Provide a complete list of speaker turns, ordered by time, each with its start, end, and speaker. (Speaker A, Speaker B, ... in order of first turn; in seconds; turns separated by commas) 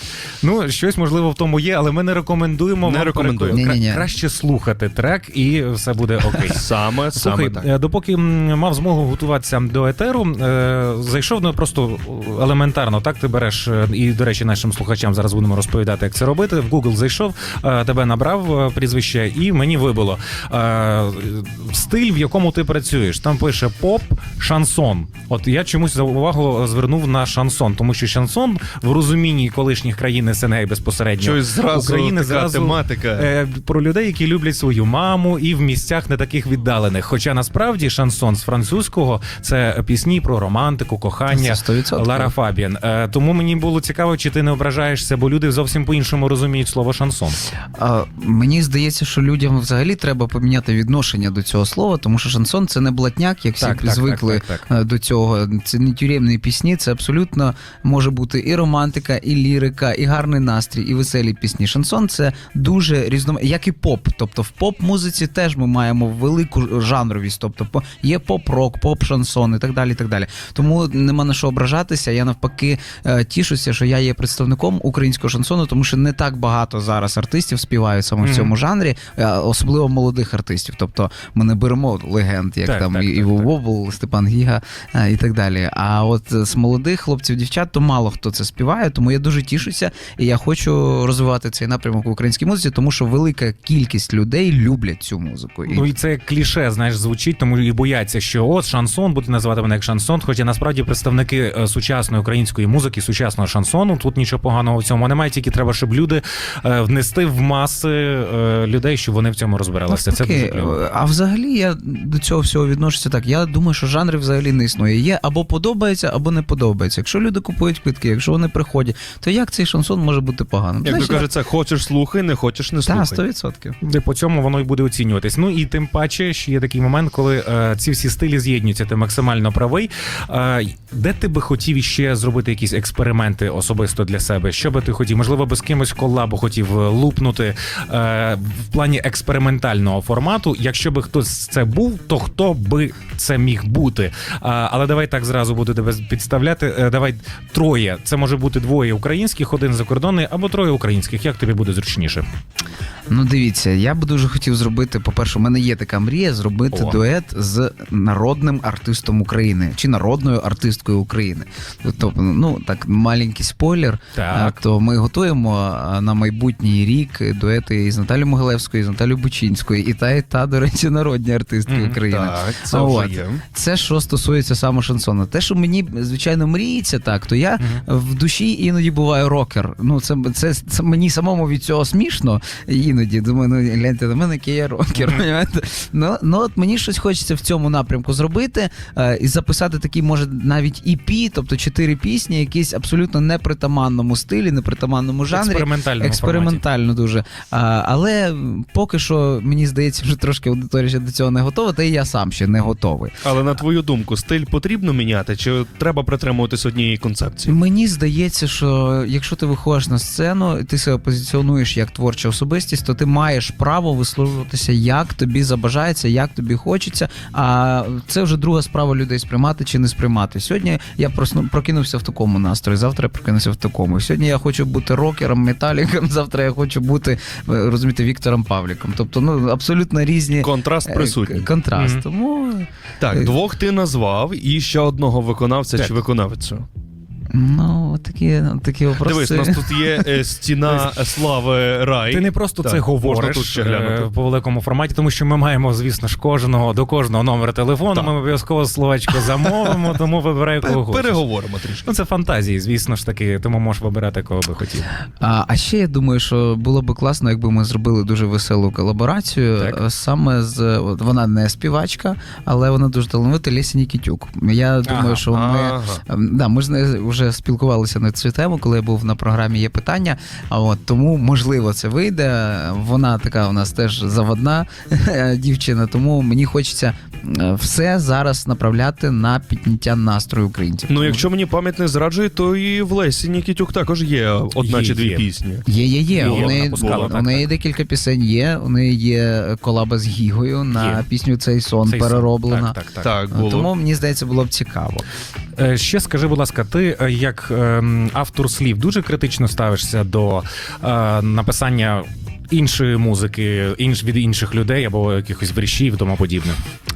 Speaker A: 0.4-47.4, Speaker B: 2.8-3.7, Speaker C: 3.5-4.0, Speaker B: 6.5-7.7, Speaker B: 31.2-33.3, Speaker C: 41.3-42.3, Speaker C: 47.6-95.9, Speaker A: 53.6-54.6, Speaker A: 78.2-78.5, Speaker A: 82.6-83.5, Speaker A: 95.7-110.8, Speaker C: 109.9-121.3, Speaker B: 120.8-123.2, Speaker C: 122.8-123.8, Speaker A: 123.8-152.2, Speaker C: 153.1-203.1, Speaker A: 156.7-157.0, Speaker A: 164.1-164.6, Speaker A: 171.7-172.0, Speaker B: 172.1-173.4, Speaker A: 195.3-196.6, Speaker B: 203.2-207.5, Speaker C: 207.4-233.3, Speaker B: 230.4-231.5, Speaker A: 231.8-232.0, Speaker B: 233.0-236.7, Speaker C: 237.3-240.1, Speaker B: 239.0-244.1, Speaker A: 242.1-251.2, Speaker B: 249.2-249.5, Speaker B: 250.6-251.9, Speaker A: 251.8-254.9, Speaker C: 255.2-281.3, Speaker A: 264.8-265.2, Speaker B: 265.3-266.0, Speaker B: 280.9-287.1, Speaker A: 284.6-285.2, Speaker C: 285.7-292.8, Speaker A: 286.1-287.5, Speaker A: 290.7-291.0, Speaker A: 291.9-293.1, Speaker B: 293.0-293.7, Speaker C: 293.3-295.1, Speaker A: 295.6-306.6